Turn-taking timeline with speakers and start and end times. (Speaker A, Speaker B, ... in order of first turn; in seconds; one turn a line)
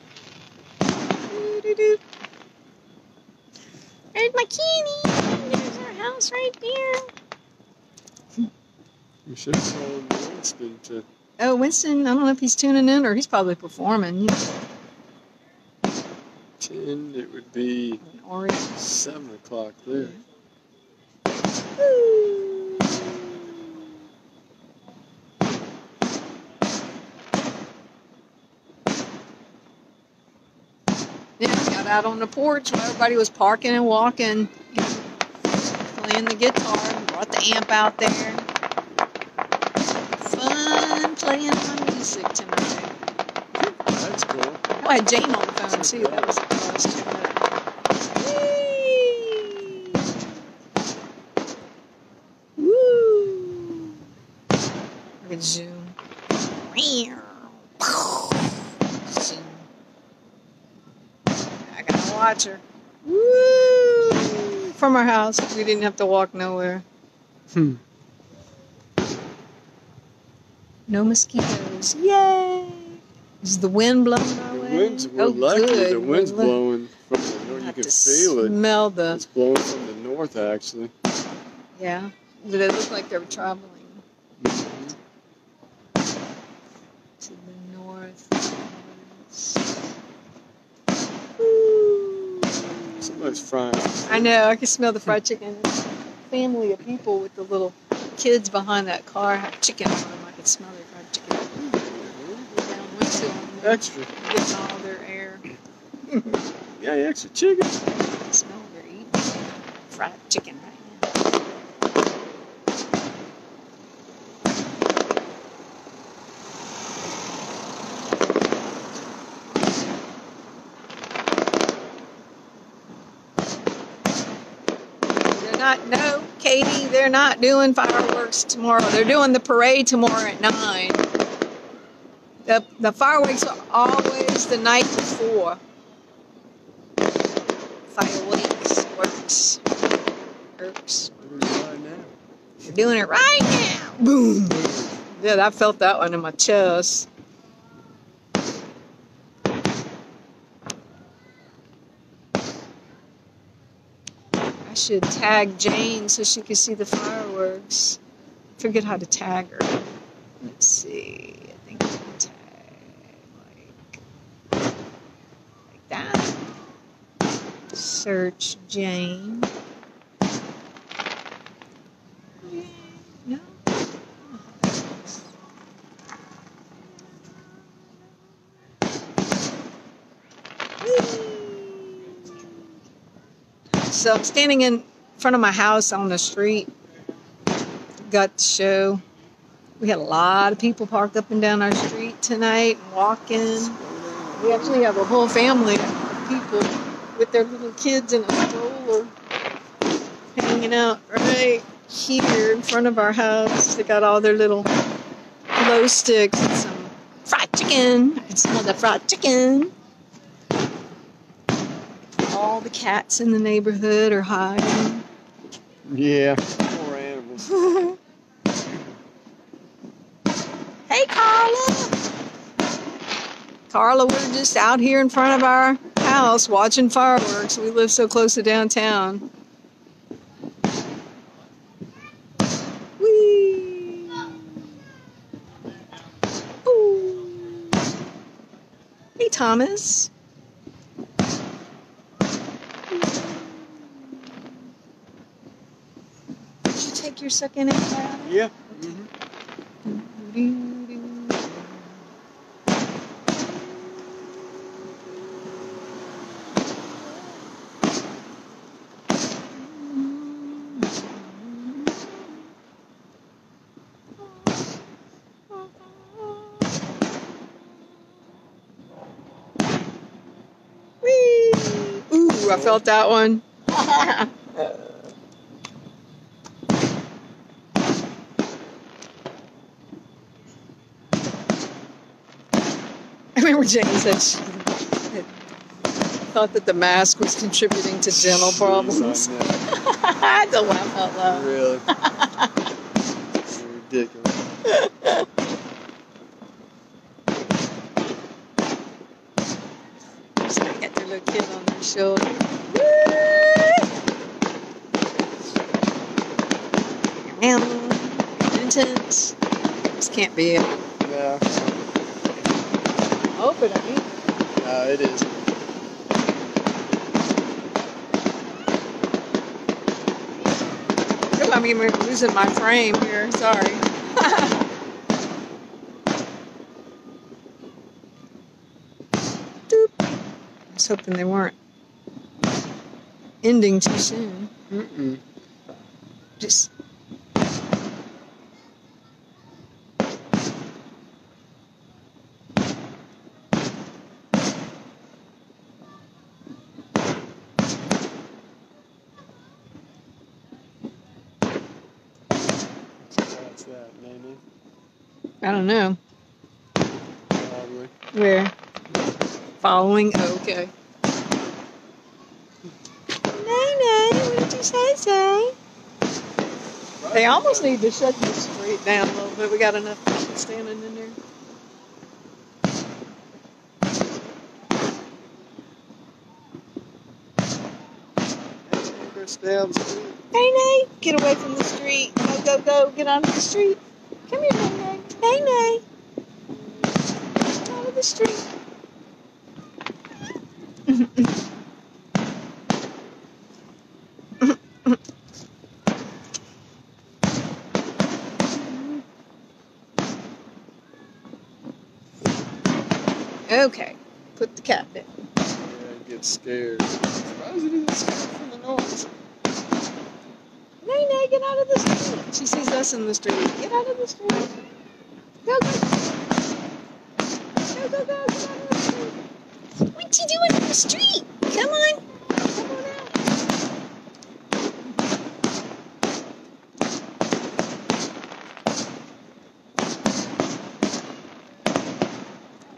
Speaker A: 1.3-2.0
Speaker A: 4.1-7.1
Speaker B: 9.3-11.1
Speaker A: 11.4-14.5
Speaker B: 16.6-18.0
Speaker A: 18.0-18.8
Speaker B: 18.8-20.2
Speaker A: 21.8-23.8
Speaker A: 31.4-35.0
Speaker A: 35.8-38.5
Speaker A: 40.2-42.9
Speaker B: 43.5-44.6
Speaker A: 44.8-47.4
Speaker B: 45.7-46.4
Speaker A: 48.2-50.0
Speaker A: 52.6-54.0
Speaker A: 55.2-56.0
Speaker A: 56.6-59.7
Speaker A: 61.6-66.8
Speaker B: 67.5-67.8
Speaker A: 70.9-76.6
Speaker B: 74.5-80.9
Speaker A: 77.5-79.2
Speaker A: 81.8-84.0
Speaker B: 84.4-85.0
Speaker A: 87.2-89.6
Speaker A: 91.4-93.4
Speaker B: 93.0-94.3
Speaker A: 94.1-101.6
Speaker B: 101.6-102.5
Speaker A: 102.5-105.4
Speaker B: 103.6-104.1
Speaker B: 106.8-107.8
Speaker A: 108.0-111.1
Speaker A: 125.3-131.1
Speaker A: 132.4-135.6
Speaker A: 137.9-139.6
Speaker A: 140.6-141.1
Speaker B: 141.2-142.1
Speaker A: 142.6-147.1
Speaker A: 154.6-158.0
Speaker A: 158.6-159.9
Speaker A: 160.4-164.0
Speaker A: 165.7-166.4
Speaker A: 167.7-169.5
Speaker A: 172.4-174.7
Speaker A: 180.8-182.6
Speaker A: 183.9-186.7
Speaker A: 188.1-189.0
Speaker A: 189.8-193.8
Speaker B: 193.7-194.8
Speaker A: 194.3-199.1
Speaker A: 200.3-204.7
Speaker A: 205.6-209.7
Speaker A: 212.2-215.0
Speaker B: 215.9-217.6
Speaker A: 217.4-218.0
Speaker A: 220.9-221.9
Speaker A: 223.7-229.2
Speaker A: 233.0-234.7
Speaker A: 236.6-237.8
Speaker A: 239.2-240.1
Speaker A: 242.9-243.9
Speaker A: 246.7-248.4
Speaker B: 248.2-249.1
Speaker A: 249.8-251.8
Speaker A: 259.5-262.2
Speaker A: 265.5-266.6
Speaker A: 271.0-275.0
Speaker B: 272.4-272.8
Speaker A: 283.4-285.3
Speaker A: 286.3-292.5
Speaker B: 288.1-289.6
Speaker B: 291.2-291.9
Speaker B: 293.4-294.4
Speaker A: 294.6-295.2
Speaker A: 300.4-303.9
Speaker A: 307.2-309.4
Speaker A: 310.0-310.8
Speaker B: 311.0-311.6
Speaker A: 313.3-314.1
Speaker B: 314.6-315.4
Speaker A: 321.4-324.6
Speaker A: 329.7-330.2
Speaker A: 330.7-331.6
Speaker A: 333.4-334.5
Speaker B: 334.7-335.2
Speaker A: 336.4-336.7
Speaker B: 353.1-354.4
Speaker A: 355.4-356.0
Speaker B: 357.3-357.9
Speaker A: 358.1-358.5
Speaker A: 359.6-360.7
Speaker A: 363.3-365.5
Speaker B: 367.0-367.8
Speaker A: 367.1-371.2
Speaker B: 378.6-380.2
Speaker A: 380.3-385.8
Speaker A: 387.5-388.5
Speaker A: 390.9-391.3
Speaker A: 394.4-394.9
Speaker A: 403.5-405.3
Speaker B: 405.6-409.1
Speaker A: 410.8-414.5
Speaker A: 415.4-415.9
Speaker A: 417.7-419.1
Speaker A: 419.8-423.1